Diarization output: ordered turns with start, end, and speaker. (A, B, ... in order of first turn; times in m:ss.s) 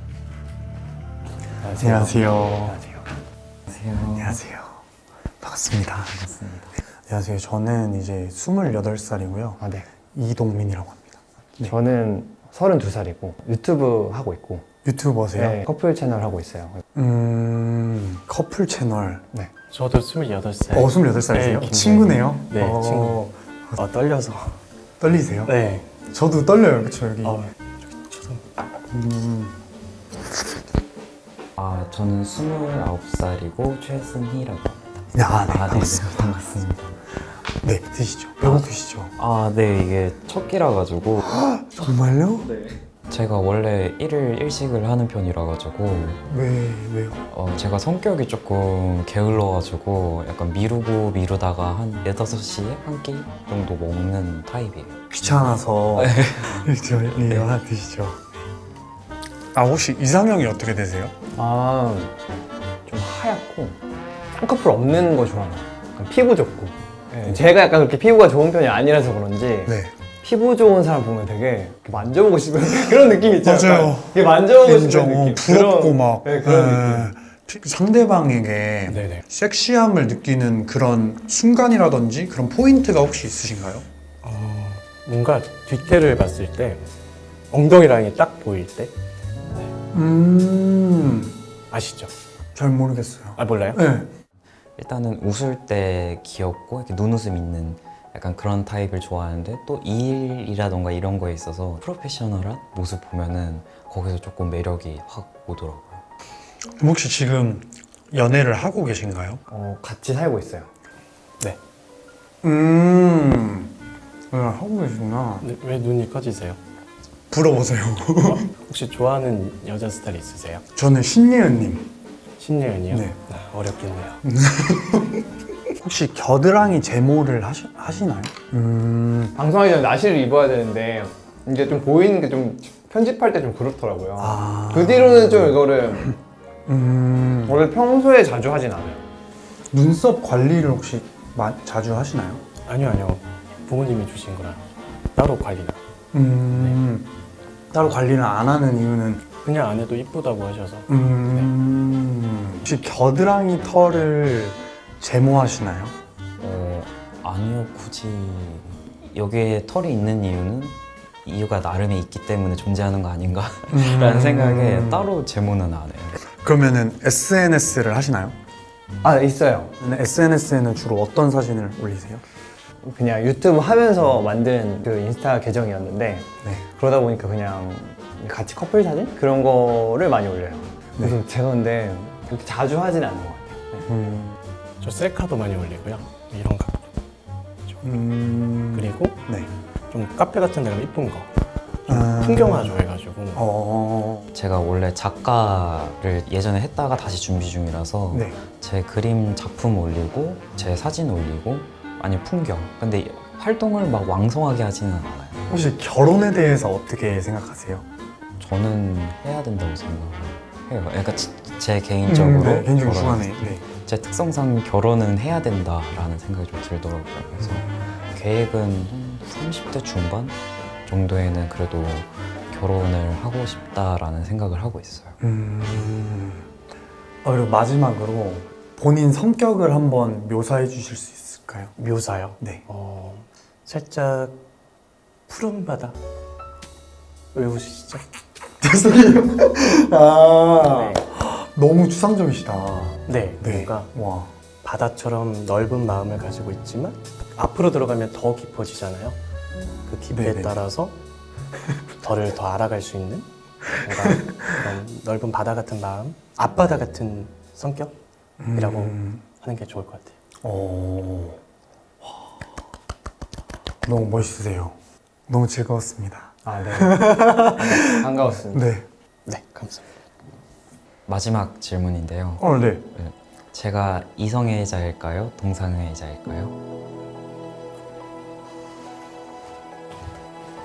0:01.6-0:03.1 A
0:01.8-0:02.8 B
0:03.7-0:04.3 C
0:03.8-0:04.8 B
0:05.4-0:06.4 B
0:07.1-0:09.6 B
0:09.6-0:09.9 A
0:10.1-0:11.7 B
0:11.6-0:14.6 A
0:14.8-0:15.6 B
0:15.4-0:16.8 A
0:16.9-0:19.2 B
0:19.7-0:24.6 D
0:20.7-0:23.8 B
0:25.0-0:25.5 B
0:25.4-0:25.9 D
0:26.0-0:27.4 B
0:27.2-0:28.4 D
0:28.9-0:29.6 B
0:31.6-0:36.9 C
0:35.1-0:36.6 B
0:37.6-0:39.1 B
0:39.2-0:41.3 C
0:41.2-0:42.6 B
0:43.1-0:46.2 C
0:46.3-0:47.2 B
0:47.3-0:55.0 C
0:55.1-0:58.2 B
0:56.0-0:56.6 C
0:57.2-0:57.4 C
0:59.5-1:01.1 B
1:01.3-1:02.1 A
1:02.9-1:03.8 A
1:04.3-1:17.1 A
1:09.7-1:09.9 B
1:13.4-1:23.8 B
1:18.9-1:19.2 D
1:24.2-1:26.9 D
1:27.5-1:28.9 D
1:29.9-1:31.3 B
1:31.7-1:32.1 D
1:32.5-1:34.1 B
1:33.4-1:33.8 D
1:34.8-1:46.0 C
1:46.8-1:49.4 B
1:49.5-1:50.7 A
1:52.4-1:53.7 B
1:54.3-1:55.4 B
1:55.4-1:56.6 D
1:57.3-1:58.5 B
1:58.3-2:00.6 D
2:00.8-2:01.9 B
2:02.4-2:04.2 D
2:02.9-2:03.2 B
2:04.2-2:05.2 B
2:05.8-2:09.4 B
2:09.4-2:16.2 A
2:14.2-2:15.6 B
2:16.7-2:17.6 B
2:17.4-2:19.0 A
2:19.7-2:22.4 B
2:22.6-2:24.6 D
2:25.1-2:25.8 D
2:26.1-2:27.1 B
2:27.7-2:29.2 B
2:29.4-2:31.4 D
2:30.9-2:35.9 B
2:36.4-2:46.2 C
2:43.7-2:45.1 B
2:46.4-2:48.3 B
2:49.0-2:49.7 A
2:49.8-2:52.2 B
2:52.8-3:03.9 A
3:03.8-3:04.4 B
3:04.8-3:06.8 D
3:07.8-3:09.5 B
3:08.7-3:09.2 D
3:09.9-3:11.3 D
3:11.9-3:13.4 D
3:11.9-3:12.8 B
3:13.4-3:14.3 B
3:14.3-3:25.4 C
3:18.1-3:18.4 B
3:25.5-3:27.8 B
3:28.4-3:45.2 C
3:32.0-3:33.6 B
3:37.4-3:37.7 B
3:45.2-3:46.4 B
3:47.2-3:51.7 B
3:51.8-3:54.4 D
3:55.3-3:56.0 D
3:57.3-3:58.0 D
3:58.6-4:04.3 B
4:00.6-4:01.0 D
4:03.1-4:03.9 D
4:04.6-4:09.2 D
4:09.8-4:10.9 D
4:10.1-4:10.6 B
4:12.0-4:13.3 D
4:13.8-4:17.9 D
4:14.0-4:14.4 B
4:18.4-4:19.2 B
4:18.5-4:20.2 D
4:20.4-4:21.4 B
4:23.8-4:24.8 B
4:25.3-4:28.9 B
4:26.4-4:28.7 A
4:29.2-4:29.8 D
4:31.1-4:36.5 C
4:32.4-4:32.9 B